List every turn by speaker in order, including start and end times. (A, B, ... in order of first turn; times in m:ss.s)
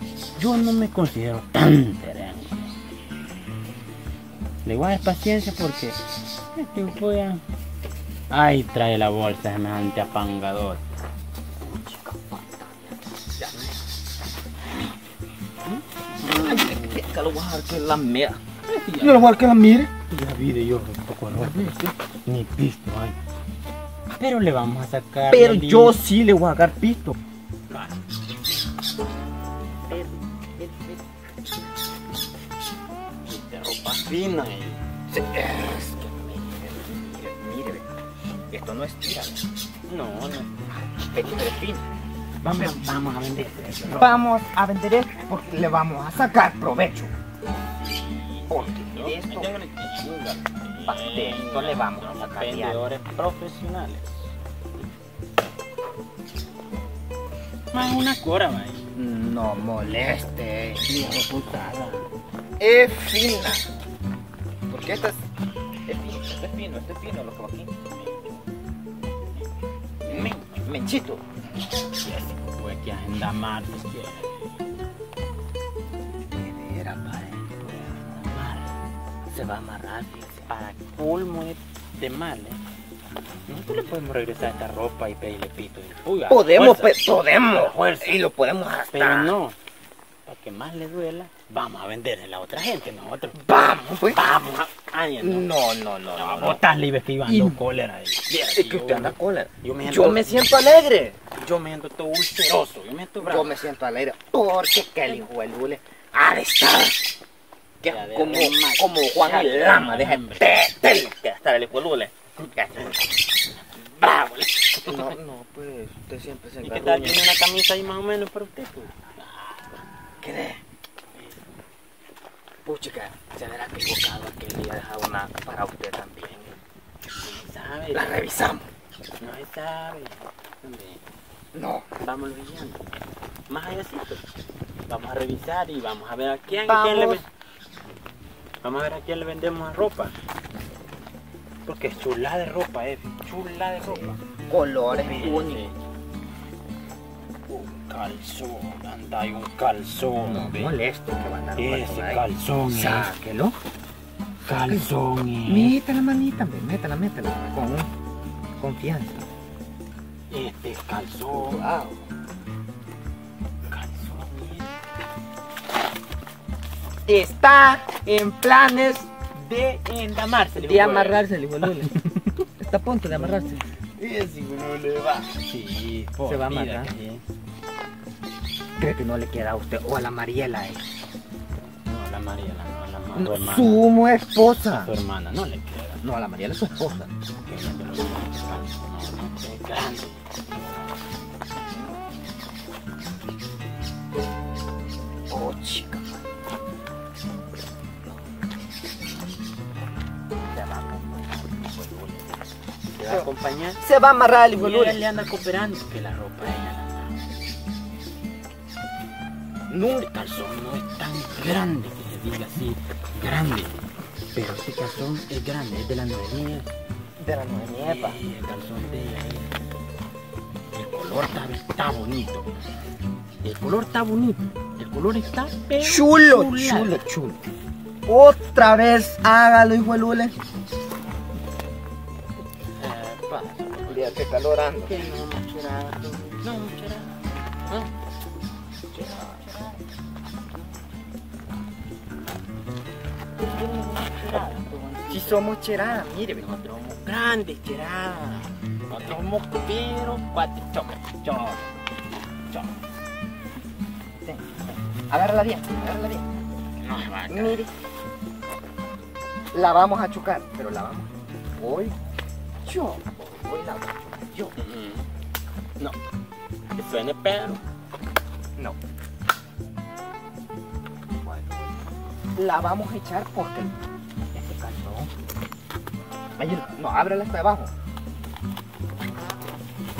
0:00.4-0:02.7 A
0:04.6-0:06.0 A
0:06.5-0:07.4 A
0:08.3-0:10.8 A
0:11.6-0:12.6 B
0:13.4-0:13.7 B
0:15.6-0:17.0 A
0:16.2-0:18.4 B
0:18.6-0:19.3 A
0:19.0-0:19.9 B
0:20.1-0:23.2 A
0:21.4-0:21.9 B
0:24.1-0:26.0 A
0:25.3-0:27.2 B
0:27.7-0:28.0 A
0:33.2-0:34.8 A
0:35.1-0:37.8 B
0:38.5-0:39.5 B
0:39.9-0:40.6 A
0:41.0-0:41.8 B
0:42.4-0:44.2 A
0:43.9-0:47.1 B
0:47.8-0:54.3 A
0:48.5-0:49.7 B
0:50.8-0:52.8 B
0:57.7-0:58.9 A
0:58.9-1:00.9 B
1:00.8-1:02.1 A
1:02.6-1:03.7 B
1:04.7-1:05.2 B
1:05.8-1:07.7 B
1:07.9-1:08.4 A
1:10.0-1:10.5 A
1:10.6-1:11.2 B
1:12.0-1:14.6 A
1:16.3-1:17.4 B
1:17.1-1:18.7 A
1:19.3-1:20.5 B
1:20.5-1:22.6 A
1:23.5-1:28.2 A
1:26.3-1:29.3 B
1:28.9-1:29.6 A
1:30.3-1:33.4 A
1:33.3-1:34.2 B
1:34.1-1:35.5 A
1:35.2-1:36.6 B
1:36.1-1:40.6 A
1:37.2-1:37.6 B
1:38.3-1:41.2 B
1:41.3-1:43.6 A
1:43.2-1:47.0 B
1:47.8-1:53.0 B
1:47.8-1:50.6 A
1:52.4-1:52.9 A
1:54.0-1:55.1 A
1:54.8-1:57.3 B
1:56.6-1:59.6 A
2:00.2-2:00.6 B
2:02.6-2:06.6 B
2:07.2-2:08.2 A
2:07.9-2:08.7 B
2:09.2-2:11.0 A
2:11.5-2:11.9 B
2:12.0-2:12.8 A
2:13.5-2:14.2 A
2:14.9-2:17.3 A
2:16.6-2:17.2 B
2:18.6-2:20.1 A
2:21.6-2:24.2 A
2:23.8-2:25.6 B
2:25.0-2:25.8 A
2:27.5-2:30.8 A
2:30.2-2:33.6 B
2:31.6-2:33.1 A
2:34.4-2:35.8 A
2:34.5-2:34.9 B
2:35.4-2:37.9 B
2:38.6-2:39.3 B
2:40.3-2:41.7 A
2:41.3-2:42.0 B
2:43.7-2:44.7 A
2:47.0-2:49.1 B
2:49.3-2:51.8 A
2:50.6-2:51.9 B
2:52.6-2:55.3 B
2:53.1-2:53.5 A
2:55.5-2:57.2 A
2:56.2-2:56.9 B
2:58.8-3:00.8 B
3:01.9-3:03.8 A
3:03.1-3:04.9 B
3:04.6-3:06.0 A
3:06.0-3:07.1 B
3:07.4-3:10.9 A
3:15.3-3:16.2 B
3:20.5-3:22.4 B
3:22.9-3:23.8 A
3:23.8-3:25.0 B
3:24.5-3:27.2 A
3:29.7-3:30.1 B
3:30.0-3:33.7 A
3:34.3-3:36.7 A
3:37.2-3:38.2 B
3:37.8-3:39.5 A
3:40.7-3:42.5 A
3:43.4-3:47.0 A
3:45.8-3:47.4 B
3:48.0-3:50.3 B
3:52.8-3:54.2 A
3:53.9-3:54.9 B
3:54.8-3:57.2 A
3:58.9-3:59.8 A
4:03.4-4:11.0 A
4:04.1-4:04.5 B
4:05.1-4:06.4 B
4:11.2-4:11.7 B
4:12.5-4:12.8 A
4:14.2-4:16.2 B
4:16.8-4:17.6 A
4:17.3-4:17.7 B
4:19.5-4:22.0 B
4:22.6-4:24.5 B
4:24.6-4:25.0 A
4:26.7-4:27.6 A
4:31.2-4:31.7 B
4:32.3-4:33.8 B
4:34.3-4:35.1 B
4:36.4-4:37.7 B